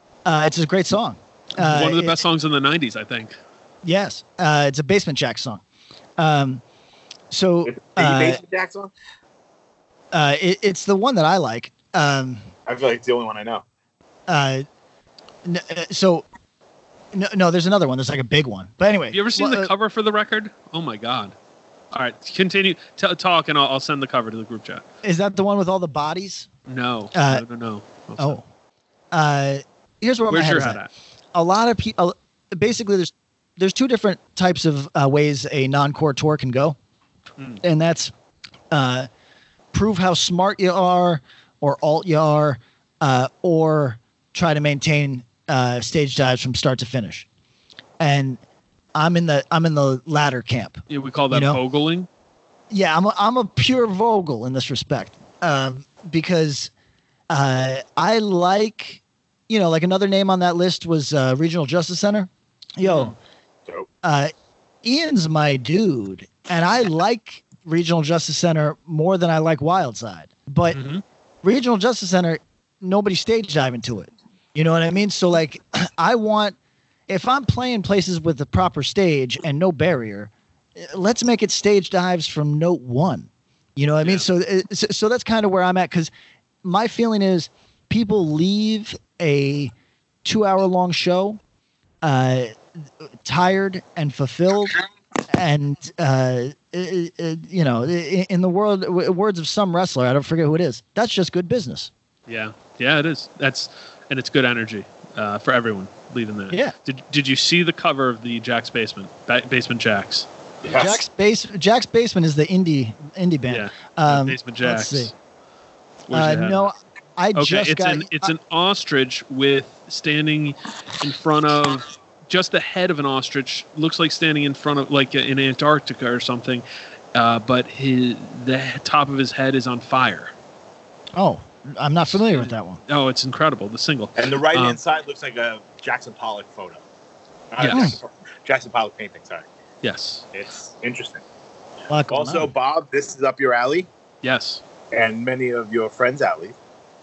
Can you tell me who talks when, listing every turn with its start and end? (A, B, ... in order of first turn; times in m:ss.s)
0:00.2-0:02.2 A
0:01.6-0:03.4 B
0:03.8-0:05.6 A
0:06.2-0:06.6 A
0:07.3-0:08.4 A
0:07.6-0:08.9 C
0:10.1-0:12.5 A
0:12.6-0:13.6 C
0:14.3-0:14.6 A
0:15.4-0:16.2 A
0:17.1-0:19.7 A
0:19.1-0:21.3 B
0:21.9-0:24.8 B
0:25.0-0:26.5 A
0:26.7-0:28.4 B
0:27.1-0:27.4 A
0:28.2-0:28.4 A
0:29.1-0:30.8 A
0:30.3-0:30.9 B
0:31.3-0:36.8 A
0:37.6-0:38.1 A
0:38.7-0:39.1 A
0:39.7-0:47.2 A
0:48.0-0:48.4 A
0:48.9-0:51.6 A
0:50.9-0:52.1 B
0:52.7-0:56.7 A
0:57.3-1:03.1 A
1:02.8-1:03.1 B
1:04.0-1:04.3 A
1:04.8-1:10.8 A
1:10.7-1:11.0 B
1:11.4-1:16.6 A
1:17.1-1:26.1 A
1:26.6-1:29.7 A
1:30.2-1:31.4 A
1:32.0-1:34.8 A
1:35.3-1:41.9 A
1:42.3-1:50.3 B
1:50.6-1:51.0 C
1:50.8-1:55.1 A
1:53.5-1:55.1 B
1:56.1-1:56.7 B
1:56.1-1:58.3 A
1:57.3-2:10.3 B
2:11.2-2:12.8 A
2:12.1-2:14.8 B
2:14.2-2:16.8 C
2:17.5-2:19.4 C
2:17.6-2:17.9 B
2:17.7-2:18.0 A
2:19.8-2:20.2 B
2:20.3-2:21.2 C
2:21.9-2:22.5 A
2:22.1-2:23.9 C
2:24.2-2:24.6 B
2:24.9-2:26.6 C